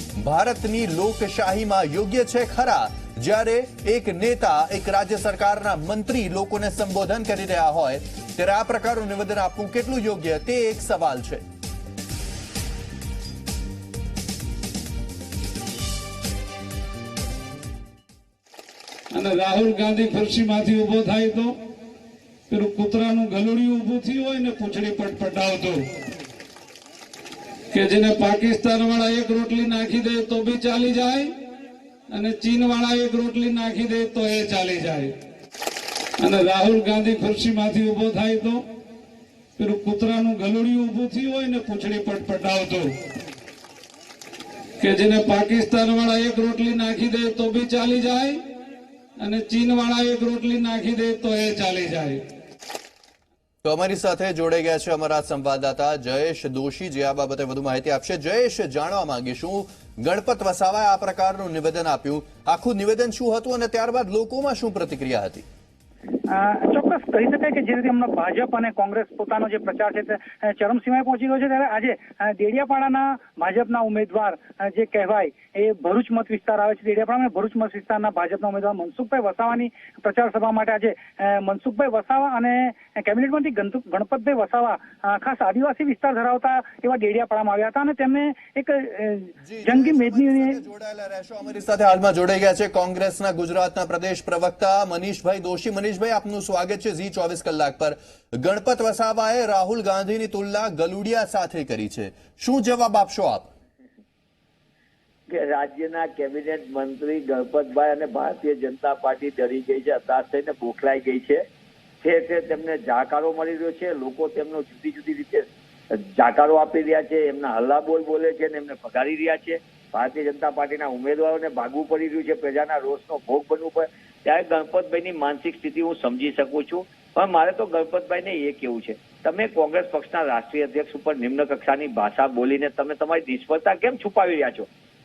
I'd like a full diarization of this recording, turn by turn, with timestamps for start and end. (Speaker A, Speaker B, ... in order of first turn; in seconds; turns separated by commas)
Speaker A: 0.2-11.4, Speaker B: 19.1-21.5, Speaker B: 22.5-25.8, Speaker B: 27.7-31.3, Speaker B: 32.1-35.1, Speaker B: 36.2-38.6, Speaker B: 39.6-42.9, Speaker B: 44.8-48.4, Speaker B: 49.2-52.2, Speaker A: 53.6-65.5, Speaker C: 66.3-90.5, Speaker A: 89.4-103.5, Speaker D: 105.3-111.4, Speaker D: 112.0-134.7